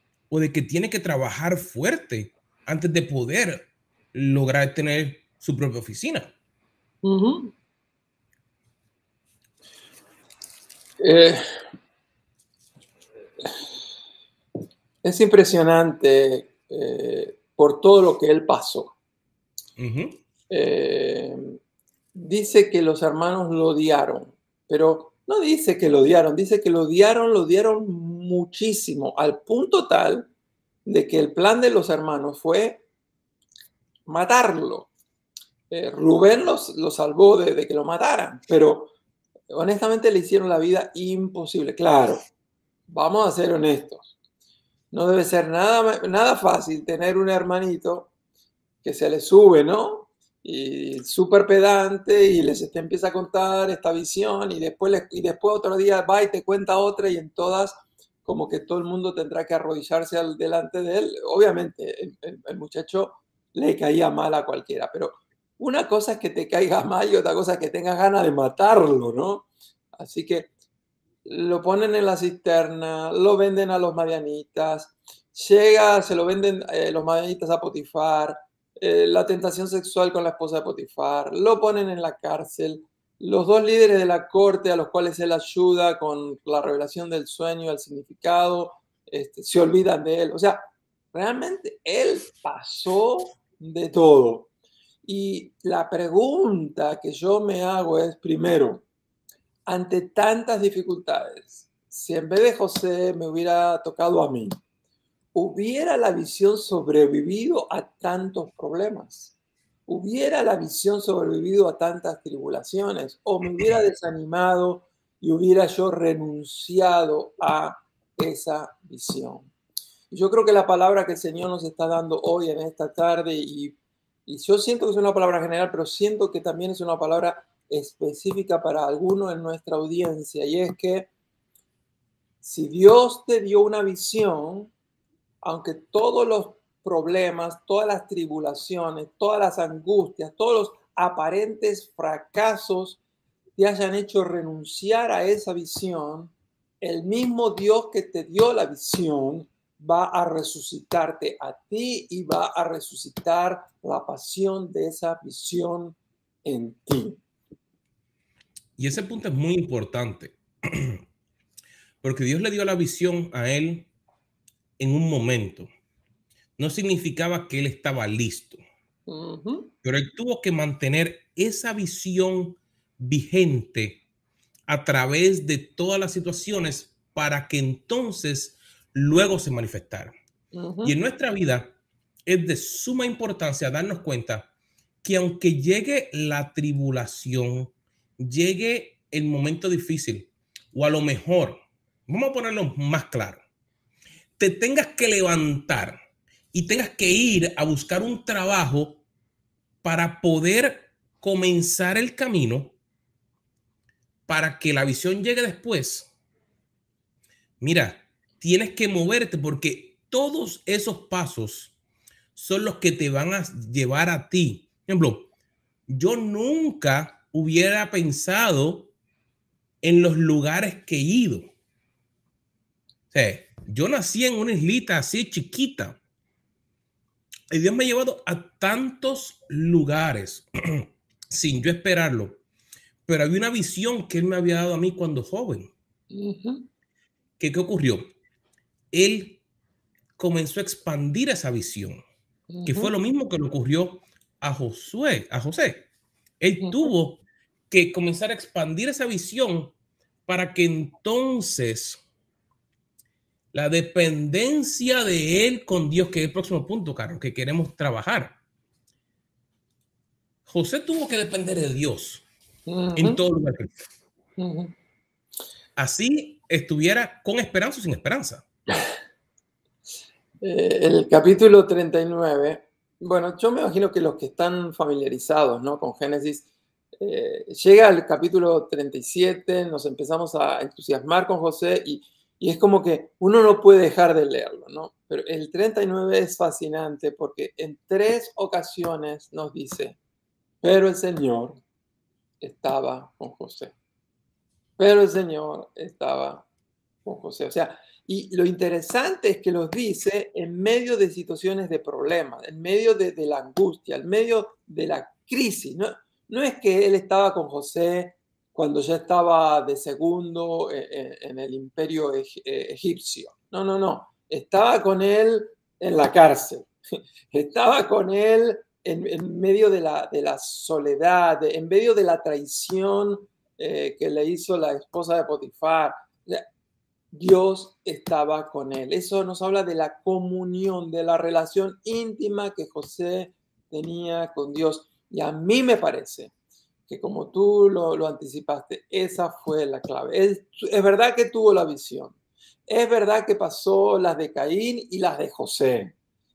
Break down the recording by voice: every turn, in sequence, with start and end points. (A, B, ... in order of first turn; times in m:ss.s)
0:00.3-0:06.3 A
0:07.0-0:07.5 B
0:11.0-0:11.4 B
0:15.0-0:19.0 B
0:19.8-0:20.2 A
0:20.5-0:21.6 B
0:22.1-0:30.3 B
0:30.8-0:32.8 B
0:34.1-0:34.9 B
0:35.7-0:38.9 B
0:39.5-0:42.2 B
0:42.9-0:44.1 B
0:44.9-0:48.1 B
0:48.8-1:10.5 B
1:11.2-1:30.6 B
1:31.1-1:34.5 B
1:35.0-1:38.8 B
1:39.7-1:44.6 B
1:45.3-1:49.3 B
1:49.9-1:59.5 B
2:00.1-2:11.1 B
2:12.4-2:14.7 B
2:15.4-2:23.0 B
2:23.6-2:37.2 B
2:38.8-2:41.0 A
2:42.0-2:43.9 A
2:44.8-2:45.7 A
2:46.6-2:48.6 A
2:49.1-2:49.7 B
2:49.8-2:54.0 A
2:54.7-3:00.1 A
3:00.5-3:01.0 B
3:00.8-3:01.7 A
3:02.2-3:04.5 A
3:05.0-3:13.4 A
3:14.4-3:16.0 A
3:16.5-3:19.0 A
3:19.8-3:22.7 A
3:24.3-3:26.1 A
3:27.6-3:31.7 A
3:32.3-3:35.3 A
3:35.9-3:38.9 A
3:39.8-3:41.5 A
3:43.1-3:46.0 A
3:47.5-3:52.4 A
3:53.0-3:55.7 A
3:56.1-3:56.7 B
3:57.4-3:58.0 A
3:58.9-3:59.4 A
4:00.2-4:02.0 A
4:02.5-4:02.9 B
4:02.6-4:05.9 A
4:06.4-4:09.7 A
4:06.6-4:06.9 B
4:10.2-4:12.0 A
4:13.5-4:18.4 A
4:20.4-4:22.2 A
4:22.7-4:23.2 B
4:23.0-4:23.8 A
4:24.4-4:24.7 B
4:25.8-4:28.4 A
4:30.4-4:36.5 B
4:37.0-4:50.0 B
4:50.6-4:51.6 B
4:52.4-4:53.7 B
4:54.8-4:56.4 B
4:57.0-5:16.7 B
5:17.3-5:26.4 B
5:27.1-5:36.3 B
5:36.9-5:42.2 B
5:42.7-5:45.9 B